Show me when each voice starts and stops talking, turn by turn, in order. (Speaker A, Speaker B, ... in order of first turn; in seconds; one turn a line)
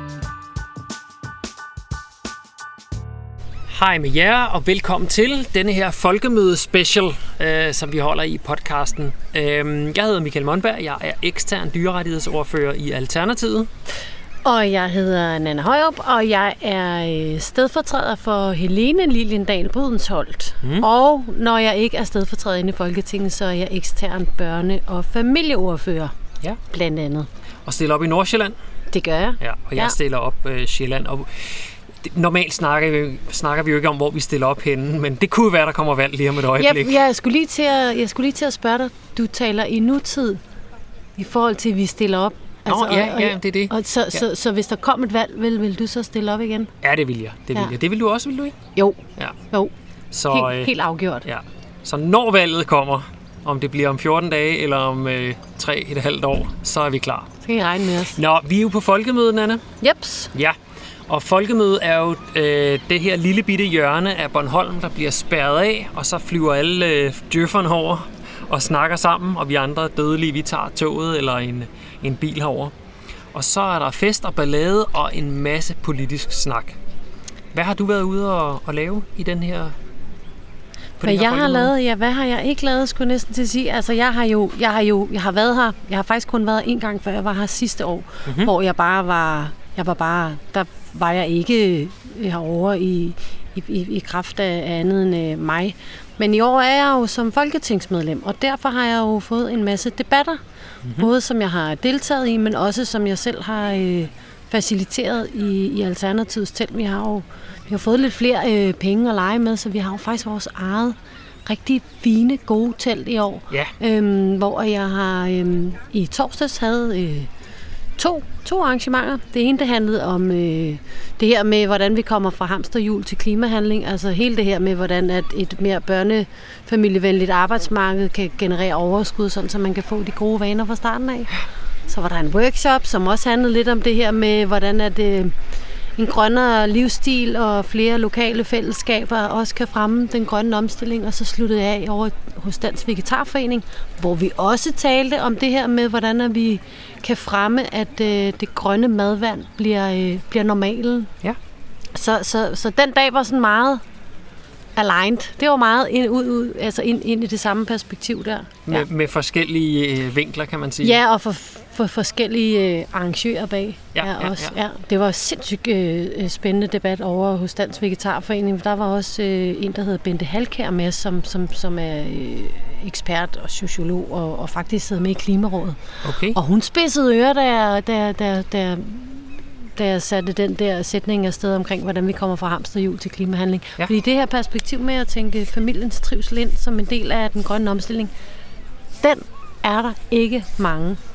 Speaker A: 3.7-13.7
Speaker B: 14.4-26.1
Speaker B: 26.7-27.3
Speaker A: 27.7-28.6
Speaker B: 28.9-29.9
Speaker A: 29.4-37.0
Speaker B: 36.6-40.4
Speaker B: 41.2-46.7
Speaker A: 42.7-44.2
Speaker A: 46.8-48.6
Speaker B: 48.8-49.7
Speaker A: 50.1-50.7
Speaker B: 50.3-51.3
Speaker A: 51.2-57.3
Speaker B: 57.4-58.2
Speaker A: 58.1-59.6
Speaker B: 59.8-60.3
Speaker A: 60.3-72.7
Speaker A: 73.3-76.8
Speaker A: 77.5-79.8
Speaker A: 81.0-81.7
Speaker B: 81.0-100.4
Speaker A: 88.3-88.5
Speaker B: 101.0-117.3
Speaker B: 118.0-135.3
Speaker B: 136.0-151.1
Speaker B: 151.9-153.8
Speaker B: 154.8-158.9
Speaker A: 158.7-161.0
Speaker B: 160.8-175.8
Speaker A: 163.9-164.5
Speaker A: 176.0-176.4
Speaker B: 176.3-188.1
Speaker B: 189.0-191.0